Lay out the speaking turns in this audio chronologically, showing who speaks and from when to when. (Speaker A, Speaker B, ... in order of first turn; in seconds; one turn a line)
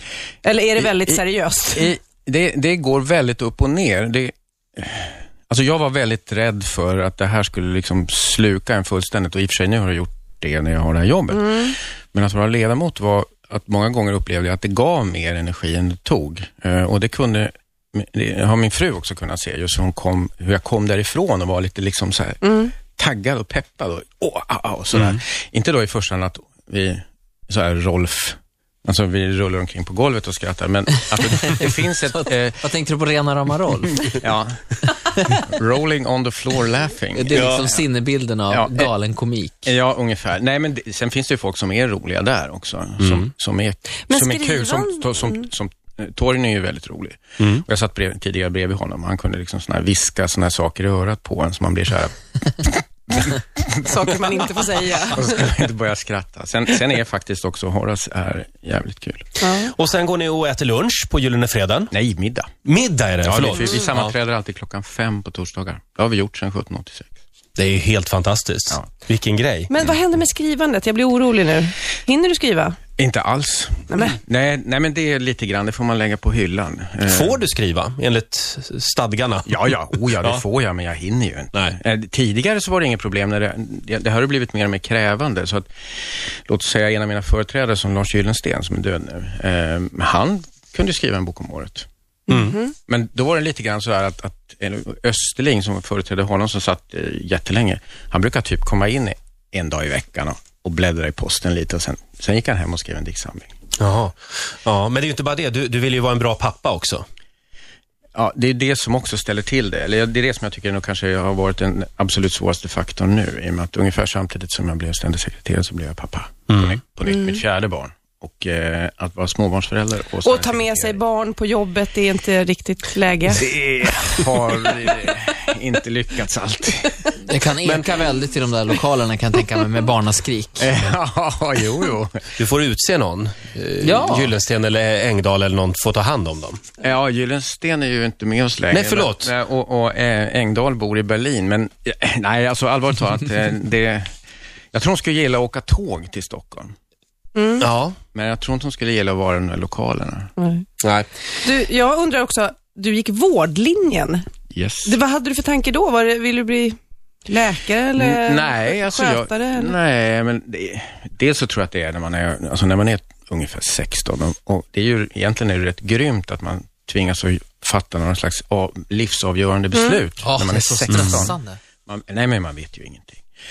Speaker A: 0.4-1.9
Speaker B: 1.8-32.6
Speaker A: 11.3-11.8
Speaker A: 22.4-22.7
Speaker C: 24.9-25.2
Speaker D: 32.6-34.1
Speaker B: 34.0-34.8
Speaker B: 35.3-37.8
Speaker D: 37.1-39.7
Speaker C: 37.3-37.7
Speaker B: 38.5-38.9
Speaker B: 39.6-54.4
Speaker C: 43.0-43.3
Speaker A: 44.1-45.5
Speaker A: 53.9-55.3
Speaker B: 55.1-59.4
Speaker A: 59.4-59.7
Speaker C: 59.6-61.9
Speaker B: 61.9-62.5
Speaker C: 62.6-64.1
Speaker B: 63.2-67.1
Speaker C: 67.6-69.8
Speaker A: 69.7-72.8
Speaker B: 73.0-77.4
Speaker A: 73.9-74.2
Speaker C: 77.1-80.4
Speaker B: 79.5-85.7
Speaker B: 86.5-91.9
Speaker A: 92.3-92.7
Speaker C: 92.3-92.6
Speaker B: 92.9-103.5
Speaker C: 103.8-107.0
Speaker B: 108.2-121.0
Speaker C: 116.5-116.8
Speaker A: 120.2-123.5
Speaker B: 123.3-127.0
Speaker D: 127.3-130.7
Speaker B: 130.6-132.3
Speaker C: 132.4-136.6
Speaker D: 133.8-134.3
Speaker B: 136.8-144.1
Speaker C: 138.7-139.3
Speaker B: 144.7-146.7
Speaker A: 147.3-147.7
Speaker C: 147.6-148.0
Speaker B: 148.1-150.3
Speaker A: 150.4-150.6
Speaker C: 150.8-151.1
Speaker A: 151.4-154.2
Speaker B: 154.5-155.0
Speaker A: 154.8-159.8
Speaker B: 158.0-173.2
Speaker D: 170.2-171.6